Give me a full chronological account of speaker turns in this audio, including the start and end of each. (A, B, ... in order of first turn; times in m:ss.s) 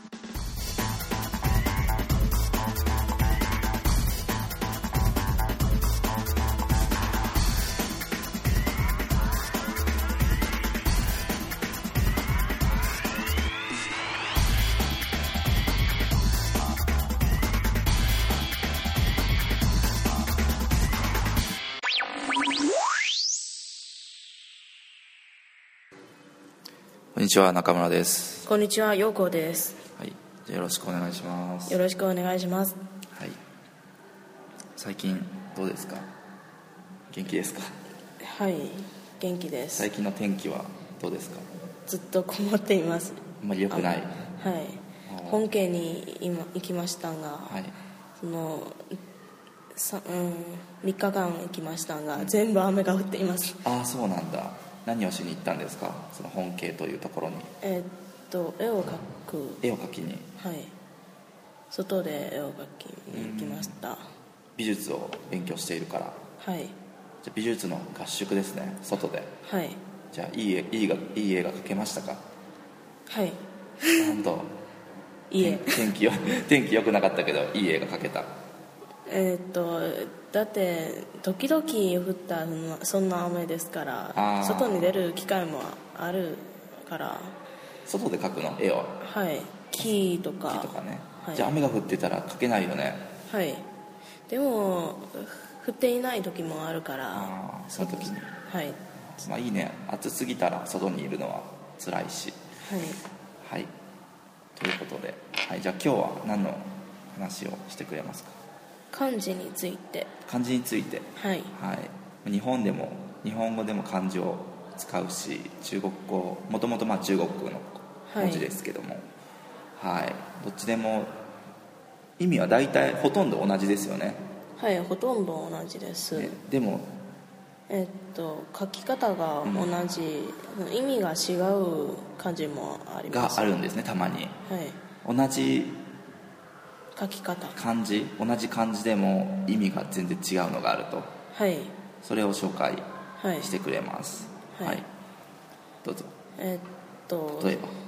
0:27.1-0:28.5 A
0:28.4-0:29.8 B
0:30.0-0:31.8 A
0:31.7-0:32.8 B
0:33.1-0:33.4 A
0:34.8-0:36.1 A
0:37.1-0:37.7 A
0:38.2-0:39.9 B
0:39.7-0:41.6 A
0:41.8-0:47.6 B
0:43.4-0:44.2 A
0:45.0-0:45.5 A
0:47.4-0:47.8 A
0:48.2-0:49.0 B
0:49.7-0:53.6 B
0:53.6-0:57.5 A
0:57.6-0:59.6 B
0:59.6-1:00.3 A
1:00.4-1:00.7 B
1:01.7-1:04.0 B
1:03.1-1:03.8 A
1:04.6-1:06.2 A
1:06.4-1:06.7 B
1:07.2-1:09.3 A
1:09.4-1:09.8 B
1:10.1-1:12.2 A
1:13.1-1:14.1 B
1:14.0-1:14.6 A
1:15.3-1:15.9 B
1:15.4-1:18.3 A
1:19.1-1:27.4 B
1:24.1-1:25.0 A
1:27.8-1:29.0 A
1:29.0-1:31.5 B
1:30.4-1:33.1 A
1:33.3-1:33.6 B
1:34.3-1:38.8 B
1:37.1-1:38.3 A
1:39.1-1:42.4 A
1:42.6-1:43.0 B
1:43.4-1:43.7 A
1:44.5-1:48.4 A
1:48.9-1:50.1 B
1:50.2-1:59.1 A
1:51.2-1:51.5 B
1:58.1-1:58.5 B
1:59.8-2:01.2 A
2:02.2-2:04.2 A
2:04.6-2:06.4 B
2:06.1-2:07.0 A
2:07.7-2:13.5 B
2:09.4-2:09.7 A
2:13.1-2:14.3 A
2:14.4-2:14.8 B
2:15.0-2:15.8 A
2:16.9-2:17.6 B
2:17.5-2:21.1 A
2:21.3-2:21.8 B
2:22.0-2:24.9 A
2:23.2-2:23.5 B
2:24.5-2:24.8 B
2:25.8-2:26.1 A
2:26.4-2:27.7 B
2:27.4-2:27.7 A